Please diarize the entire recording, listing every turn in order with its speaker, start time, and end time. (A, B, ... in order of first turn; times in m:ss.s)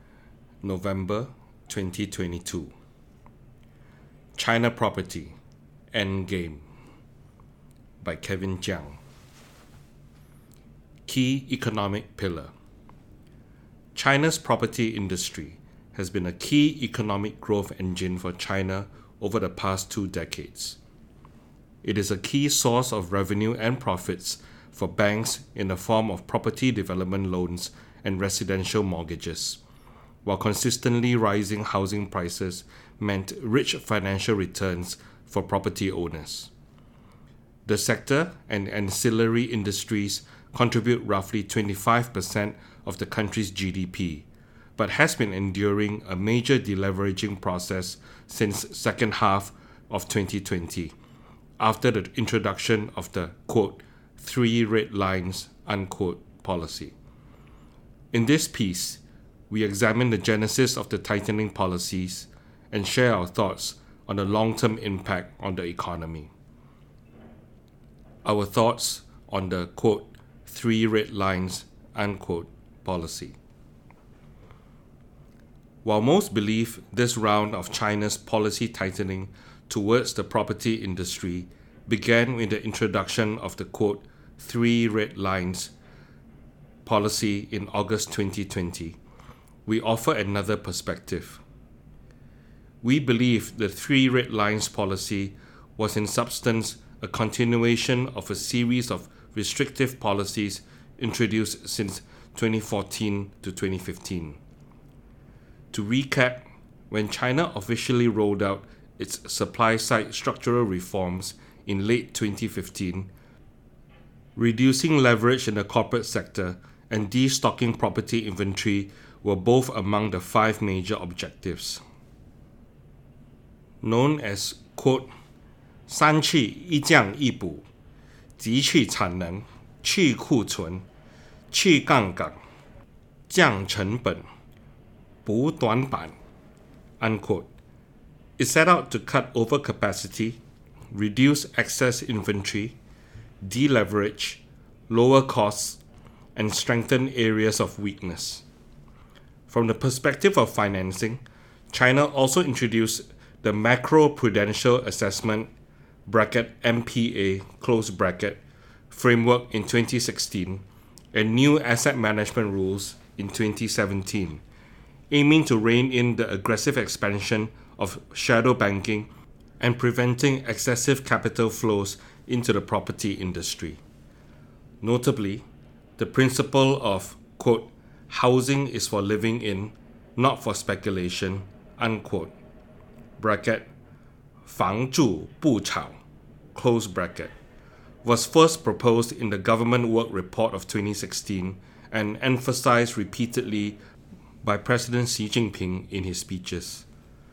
0:00.6-0:02.7 A
0:04.4-0:05.4 A
0:05.9-0:06.6 A
0:08.0-0:09.0 A
0:11.1-0:12.5 A
0:14.0-0:20.8 A
0:21.8-0:29.6 A
0:30.2-0:36.5 A
0:37.7-0:50.9 A
0:51.6-0:57.0 A
0:58.1-1:06.3 A
1:08.2-1:13.4 A
1:15.8-1:25.7 A
1:26.8-1:29.0 A
1:29.7-1:31.4 A
1:32.8-1:44.4 A
1:45.7-1:53.1 A
1:54.4-2:01.8 A
2:03.8-2:05.1 A
2:05.9-2:07.7 A
2:08.4-2:10.9 A
2:11.5-2:12.4 A
2:13.3-2:14.2 A
2:15.2-2:16.2 A
2:17.0-2:17.5 A
2:18.4-2:20.4 A
2:20.9-2:22.8 A
2:23.4-2:25.8 A
2:26.4-2:28.4 A
2:29.5-2:35.5 A
2:36.1-2:44.4 A
2:45.1-2:53.8 A
2:54.8-2:55.4 A
2:56.0-3:02.3 A
3:03.2-3:03.7 A
3:04.5-3:06.0 A
3:06.6-3:07.3 A
3:08.0-3:13.8 A
3:14.4-3:16.9 A